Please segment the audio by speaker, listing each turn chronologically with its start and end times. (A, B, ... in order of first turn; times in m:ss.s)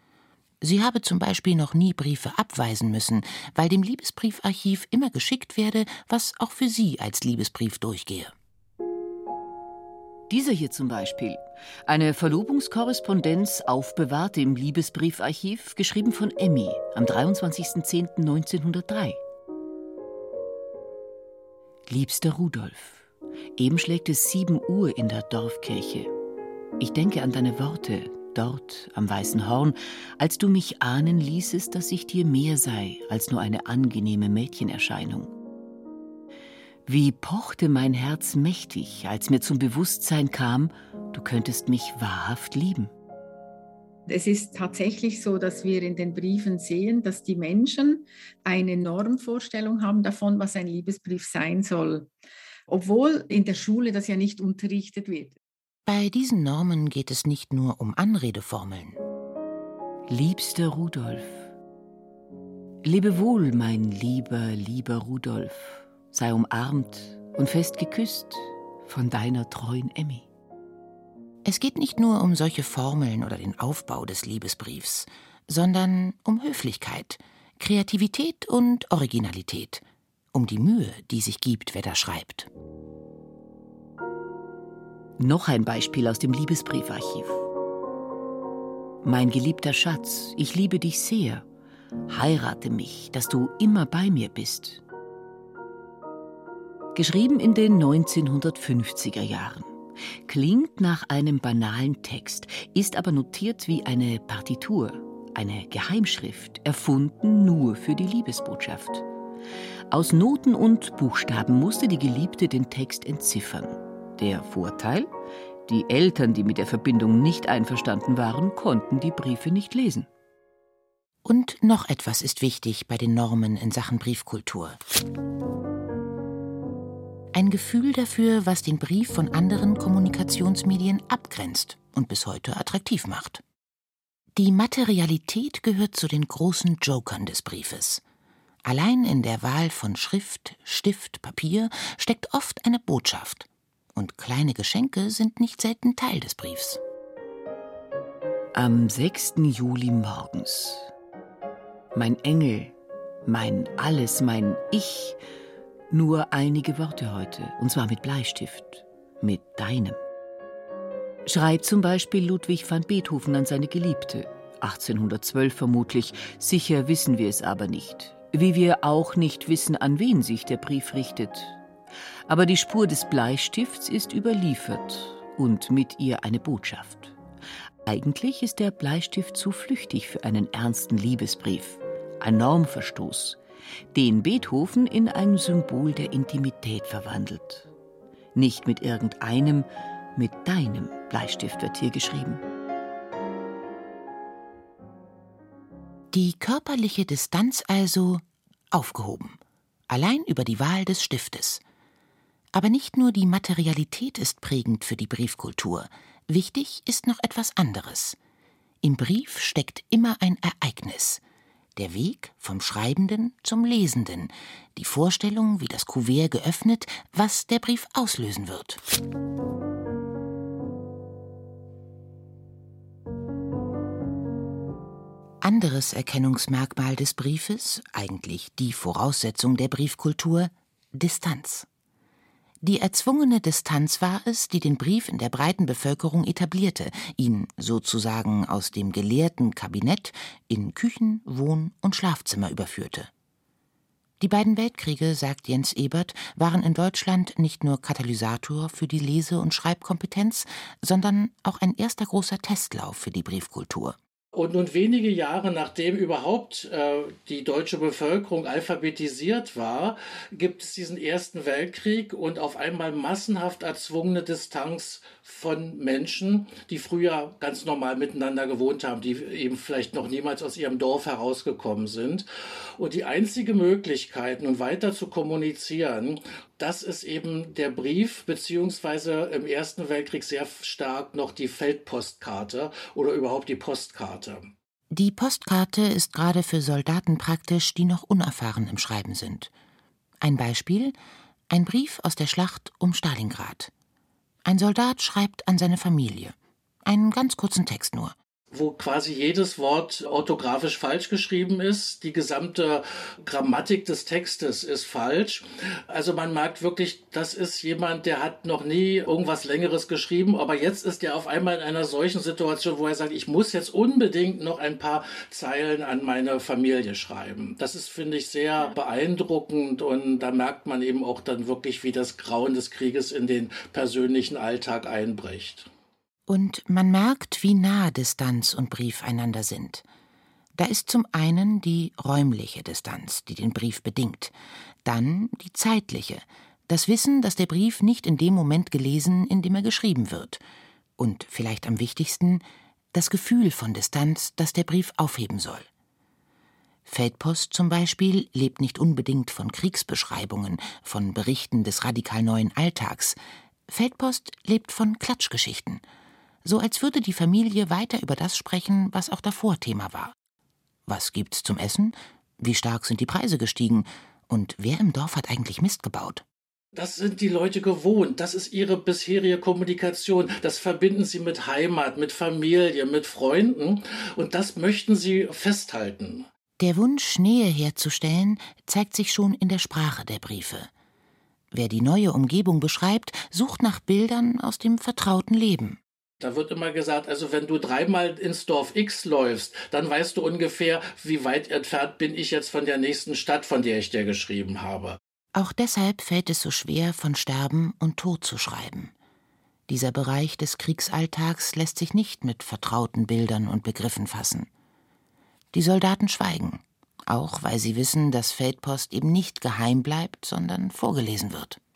0:00.6-0:08.3 A
0:10.3-0:19.2 B
0:21.9-0:23.0 B
0:23.6-0:26.1 B
0:26.8-0:35.4 B
0:36.9-0:42.9 B
0:44.1-0:52.1 C
0:52.7-0:55.4 C
0:55.9-0:59.0 A
1:00.1-1:01.5 B
1:02.8-1:10.3 B
1:11.4-1:22.5 A
1:25.2-1:27.4 B
1:29.0-1:31.4 B
1:32.1-1:34.8 B
1:37.0-1:39.7 B
1:40.3-1:49.0 B
1:49.9-1:55.1 B
1:55.7-2:00.1 B
2:01.2-2:04.8 A
2:07.3-2:13.4 A
2:14.4-2:18.0 A
2:18.6-2:26.8 A
2:28.6-2:30.9 B
2:31.9-2:32.7 B
2:33.3-2:35.2 B
2:35.9-2:40.0 B
2:41.3-2:51.6 B
2:52.3-2:57.2 B
2:57.9-3:03.4 B
3:03.9-3:07.7 B
3:08.3-3:12.4 B
3:16.1-3:21.6 A
3:22.5-3:28.2 A
3:28.8-3:31.2 A
3:31.8-3:38.8 A
3:45.4-3:51.7 A
3:52.6-4:03.1 A
4:04.2-4:14.0 A
4:14.4-4:32.3 D
4:32.8-4:44.5 D
4:44.9-4:49.5 A
4:50.2-4:51.0 A
4:51.5-4:53.7 A
4:54.4-4:56.4 A
4:56.9-4:58.2 A
4:58.5-5:25.7 D
5:26.3-5:29.8 A
5:30.6-5:34.3 A
5:34.8-5:40.4 A
5:41.0-5:42.4 A
5:42.9-5:45.7 A
5:46.9-5:55.8 A
5:56.4-6:00.2 A
6:00.9-6:06.2 A
6:06.8-6:16.3 D
6:16.6-6:20.7 A
6:21.5-6:25.8 A
6:26.2-6:35.0 D
6:35.4-6:38.9 A
6:39.7-6:44.5 A
6:45.5-6:51.6 A